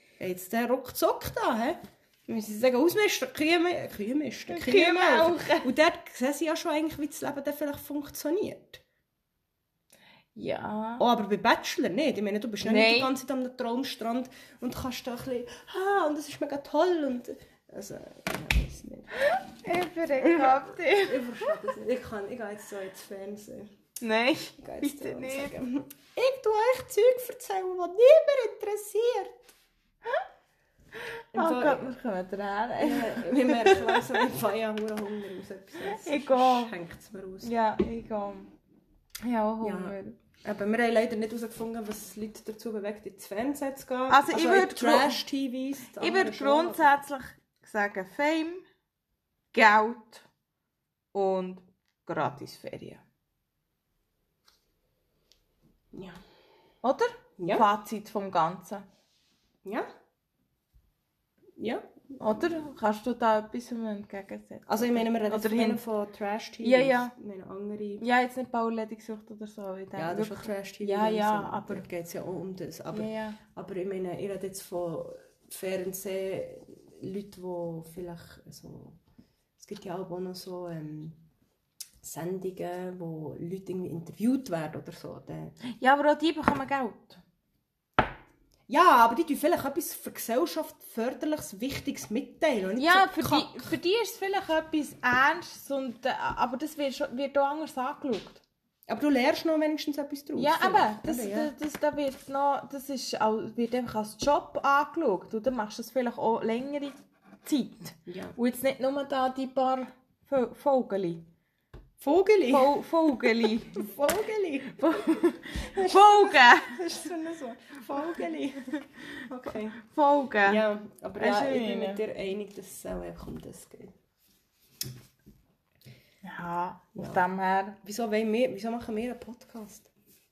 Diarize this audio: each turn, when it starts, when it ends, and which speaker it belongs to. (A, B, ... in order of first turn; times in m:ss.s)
0:00.2-0:08.8 A
0:04.5-0:05.7 B
0:10.4-0:11.0 B
0:11.0-0:19.1 A
0:12.6-0:13.1 B
0:19.2-0:21.5 B
0:20.2-0:23.7 A
0:24.0-0:25.5 B
0:24.6-0:29.5 A
0:31.0-0:34.2 B
0:31.3-0:32.0 A
0:32.8-0:37.5 A
0:35.8-0:36.7 B
0:37.4-0:38.5 B
0:39.2-0:40.2 B
0:39.6-0:46.9 A
0:44.1-0:45.2 B
0:46.0-0:48.6 B
0:49.5-0:50.3 B
0:51.1-0:53.0 B
0:55.9-0:56.2 A
0:56.8-0:58.9 B
0:57.4-0:57.7 A
1:01.6-1:01.9 A
1:02.2-1:05.8 B
1:04.7-1:08.0 A
1:06.6-1:07.1 B
1:08.0-1:11.8 B
1:10.0-1:19.0 A
1:12.9-1:13.4 B
1:19.6-1:21.2 A
1:22.0-1:25.6 A
1:25.7-1:27.2 B
1:28.7-1:33.7 A
1:32.8-1:38.4 B
1:38.9-1:41.5 A
1:40.4-1:51.2 B
1:48.1-1:48.4 A
1:52.0-1:52.7 A
1:52.5-1:53.9 B
1:53.5-1:55.1 A
1:54.7-1:56.8 B
1:55.7-1:59.8 A
1:59.8-2:00.6 B
2:00.4-2:03.9 A
2:01.2-2:02.0 B
2:06.2-2:07.8 B
2:07.0-2:07.2 A
2:07.8-2:09.9 A